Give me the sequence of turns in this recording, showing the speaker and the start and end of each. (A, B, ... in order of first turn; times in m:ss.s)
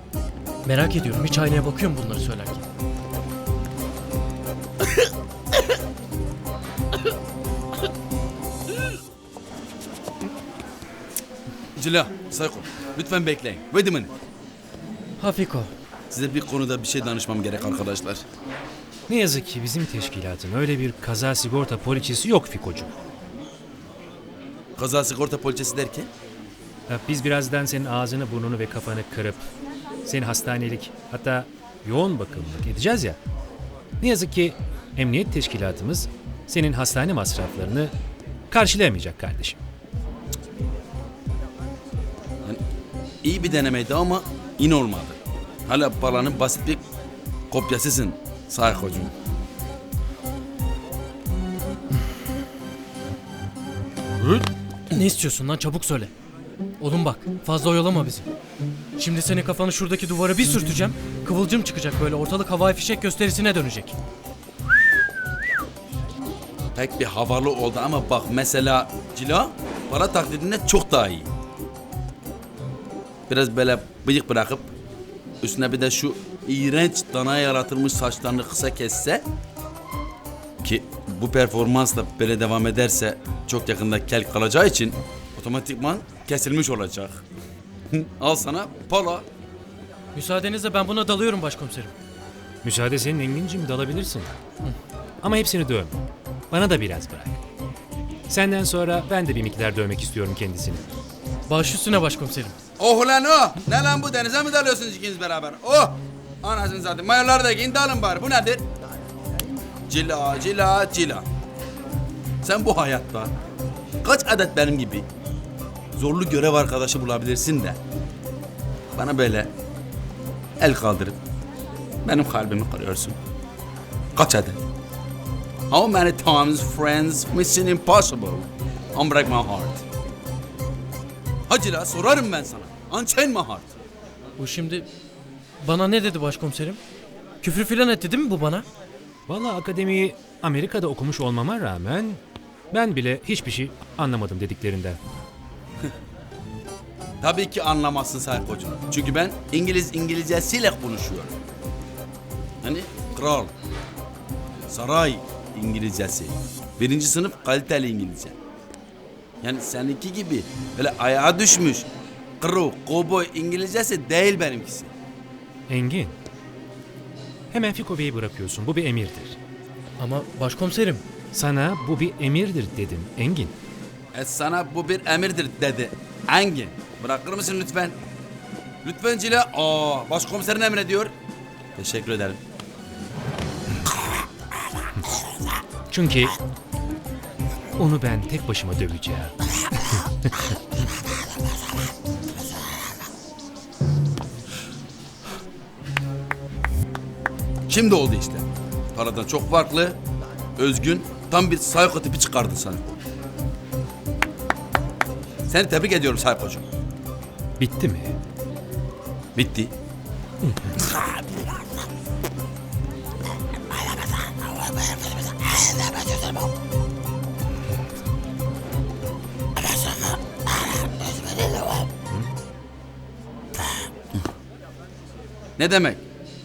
0:00.6-0:02.6 A
0:11.8-0:14.1 B
0:15.2-0:15.7 A
0:16.1-0:18.2 B
0:19.1-0:22.9 C
0:24.8-0:26.1 B
0:26.9-0:29.4 C
0:30.0-0:33.2 C
0:34.0-0:37.9 C
0:38.5-0:39.6 C
0:43.2-0:46.8 B
0:47.5-0:49.1 B
0:54.2-0:56.1 A
0:56.8-0:58.3 A
0:59.0-1:04.0 A
1:06.7-1:11.3 B
1:13.3-1:14.7 B
1:15.4-1:19.2 B
1:20.6-1:27.2 B
1:27.9-1:29.3 B
1:30.1-1:31.9 A
1:32.6-1:34.4 C
1:35.2-1:36.0 C
1:36.5-1:37.4 C
1:38.3-1:40.8 C
1:41.5-1:42.6 A
1:42.8-1:48.6 B
1:49.9-1:51.3 B
1:52.4-1:53.3 B
1:54.0-1:55.1 B
1:56.0-1:57.8 B
1:58.9-1:59.5 B
2:00.6-2:01.2 B
2:02.0-2:03.2 B
2:04.1-2:04.6 B
2:05.7-2:09.8 B
2:11.5-2:13.7 B
2:14.4-2:14.9 A
2:15.6-2:16.8 A
2:17.4-2:18.6 A
2:19.3-2:22.2 C
2:22.7-2:25.0 C
2:27.2-2:31.4 B
2:32.6-2:33.5 B
2:34.7-2:38.4 B
2:39.4-2:41.9 B
2:42.4-2:44.9 B
2:45.7-2:46.1 C
2:47.5-2:49.4 C
2:50.0-2:51.0 A
2:51.3-2:53.5 C
2:54.1-2:58.0 B
2:58.8-3:01.1 B
3:01.8-3:02.4 B
3:05.9-3:06.4 C
3:07.8-3:09.3 C
3:17.7-3:20.0 B
3:20.6-3:23.0 B
3:25.5-3:26.7 B
3:27.6-3:28.2 C
3:29.3-3:29.7 B
3:30.4-3:30.8 C
3:41.4-3:41.8 B
3:45.6-3:46.0 B